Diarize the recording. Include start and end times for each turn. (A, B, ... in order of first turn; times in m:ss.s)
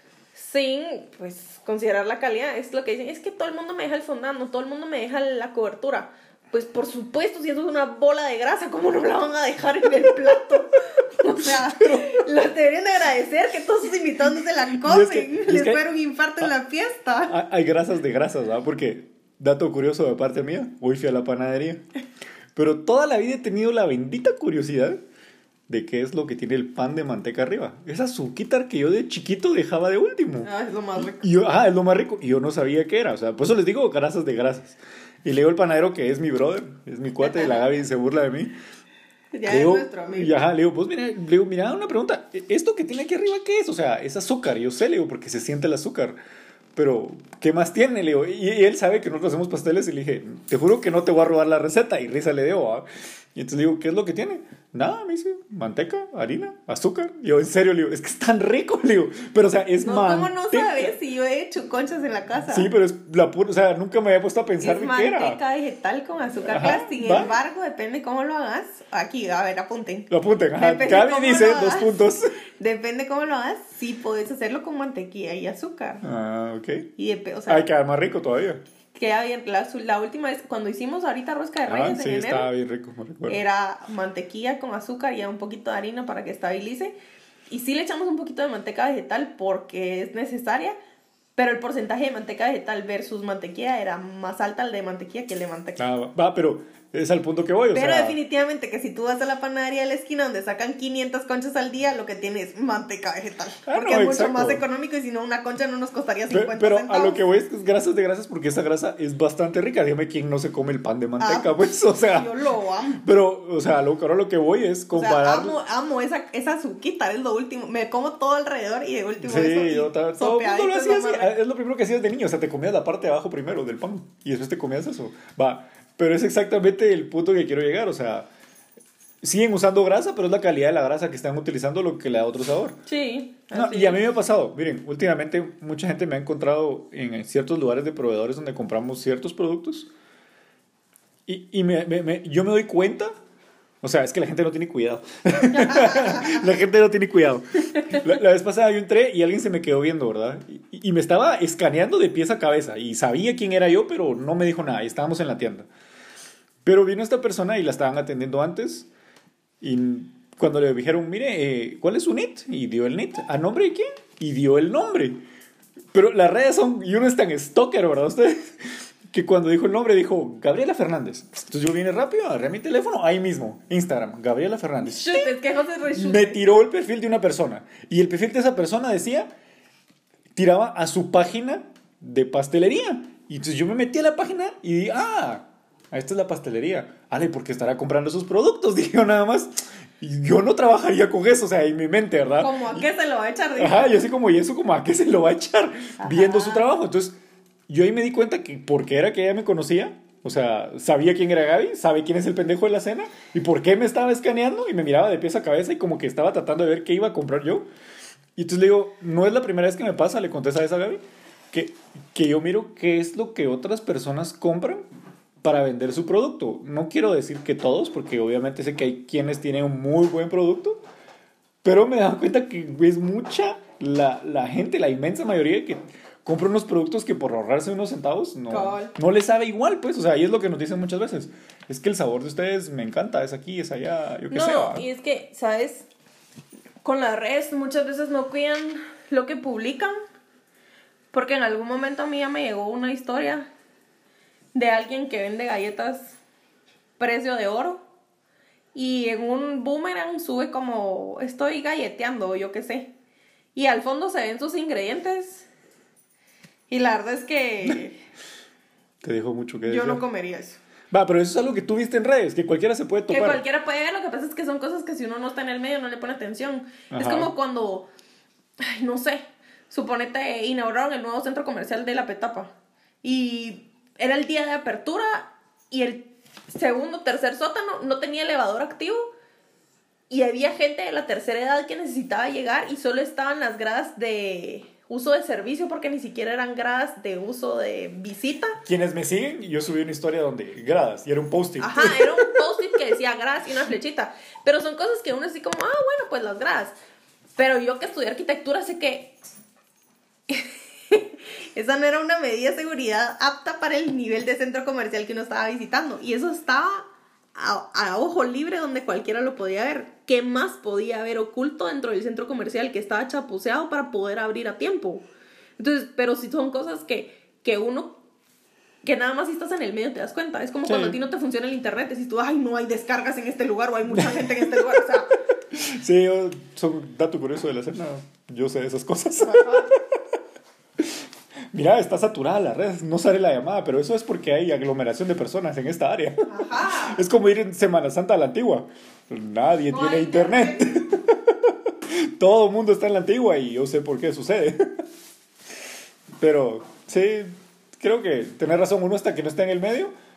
0:00.3-0:17.4 A
0:11.4-0:12.2 B
0:14.8-0:15.8 B
0:17.3-0:21.8 B
0:22.6-0:25.0 B
0:25.7-0:38.6 B
0:30.4-0:31.3 A
0:37.2-0:37.7 A
0:39.3-0:40.3 A
0:39.5-0:46.2 B
0:46.8-1:01.0 B
0:59.8-1:02.7 A
1:02.5-1:05.4 B
1:04.6-1:11.9 A
1:06.5-1:07.4 B
1:10.1-1:12.4 B
1:12.6-1:16.0 A
1:16.0-1:16.9 B
1:17.0-1:17.7 A
1:17.5-1:18.6 B
1:18.9-1:22.5 A
1:21.7-1:23.4 B
1:23.3-1:27.0 A
1:27.5-1:30.8 A
1:31.4-1:35.8 A
1:35.8-1:38.2 B
1:37.7-1:47.2 A
1:43.7-1:44.6 B
1:46.3-1:52.3 B
1:51.2-1:53.0 A
1:53.0-1:55.6 B
1:54.9-2:01.3 A
1:59.2-2:08.3 B
2:09.2-2:12.8 B
2:12.9-2:14.0 A
2:13.5-2:19.9 B
2:21.3-2:23.1 B
2:23.8-2:35.7 B
2:25.5-2:26.4 A
2:36.6-2:38.9 B
2:39.6-2:45.2 B
2:45.9-2:55.4 B
2:54.8-2:56.4 A
2:55.9-2:59.3 B
3:00.4-3:12.8 B
3:12.4-3:14.1 A
3:13.6-3:17.2 B
3:16.0-3:16.7 A
3:17.7-3:27.7 B
3:28.4-3:34.9 B
3:35.4-3:40.8 B
3:41.6-3:54.9 B
3:48.5-3:48.9 A
3:54.3-3:55.9 A
3:56.8-4:00.0 A
4:01.1-4:03.5 A
4:04.5-4:06.2 A
4:07.0-4:07.8 A
4:08.8-4:12.9 A
4:13.6-4:15.5 A
4:16.7-4:18.0 A
4:19.0-4:20.0 B
4:19.7-4:20.6 A
4:20.9-4:23.4 B
4:23.1-4:27.9 A
4:26.9-4:27.3 B
4:28.6-4:39.1 A
4:40.1-4:48.6 A
4:48.6-4:52.3 B
4:51.6-4:56.8 A
4:57.4-4:59.2 A
5:00.3-5:15.1 A
5:15.6-5:18.0 A
5:18.8-5:25.2 A
5:20.6-5:21.0 B
5:23.9-5:25.0 B
5:25.5-5:29.8 B
5:29.2-5:29.7 A
5:31.5-5:44.8 B
5:36.3-5:37.0 A
5:39.7-5:40.8 A
5:46.2-5:49.9 B